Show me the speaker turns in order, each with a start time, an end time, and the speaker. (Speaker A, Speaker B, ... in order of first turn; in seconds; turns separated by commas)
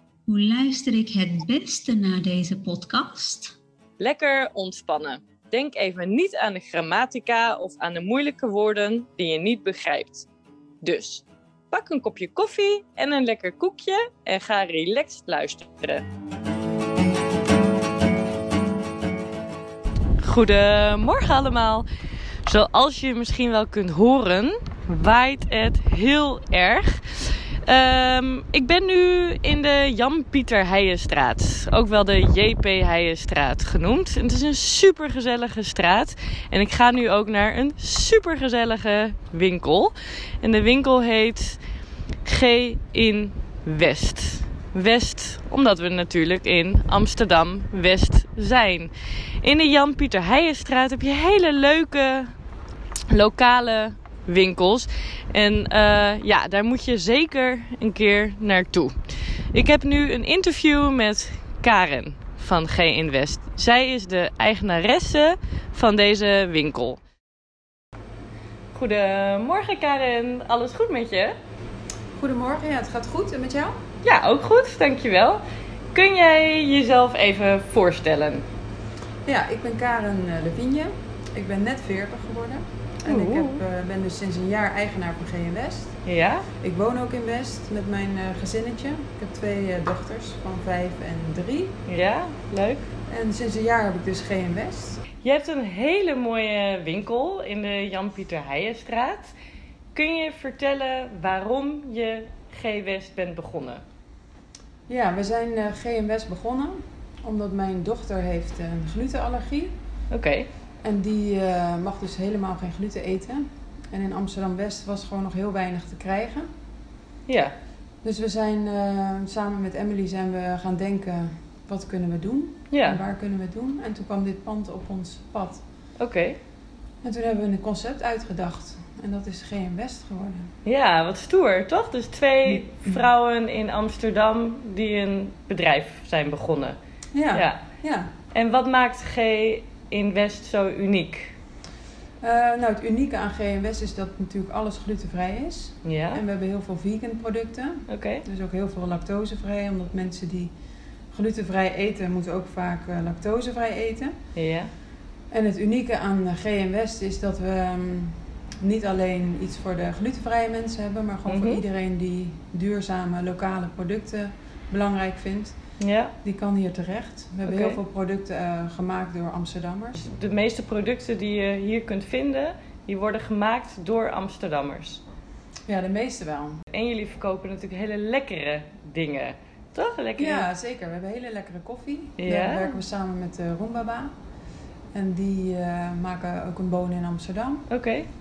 Speaker A: 0.3-3.5, Speaker B: 4.0-10.3, Speaker B: 10.8-16.0, Speaker B: 20.2-21.9, Speaker B: 22.5-41.6, Speaker B: 42.2-52.3, Speaker B: 53.1-59.0, Speaker B: 59.5-67.0, Speaker B: 68.7-71.3, Speaker C: 72.2-73.8, Speaker B: 74.0-75.4, Speaker B: 75.9-78.5, Speaker C: 79.3-86.0, Speaker B: 83.1-83.6, Speaker B: 86.0-86.5, Speaker C: 86.6-91.8, Speaker B: 91.9-92.9, Speaker C: 93.1-95.0, Speaker B: 95.2-99.3, Speaker B: 99.9-103.8, Speaker C: 104.9-109.8, Speaker B: 110.1-110.5, Speaker C: 110.8-116.5, Speaker B: 117.3-117.5, Speaker C: 118.0-125.6, Speaker B: 122.7-123.0, Speaker B: 126.0-126.4, Speaker C: 127.0-130.5, Speaker B: 130.7-136.8, Speaker C: 137.1-138.1, Speaker B: 137.3-137.6, Speaker B: 138.3-141.3, Speaker C: 142.2-150.5, Speaker B: 145.8-146.2, Speaker B: 147.9-148.2, Speaker C: 151.1-154.1, Speaker B: 154.3-154.7, Speaker C: 155.3-165.6, Speaker B: 161.3-161.6, Speaker B: 165.8-166.1, Speaker C: 166.2-170.0, Speaker B: 167.5-167.8, Speaker B: 170.0-175.0, Speaker C: 175.7-176.6, Speaker B: 176.7-180.5, Speaker C: 180.2-184.1, Speaker B: 182.2-182.8, Speaker C: 184.9-187.7, Speaker B: 187.7-188.1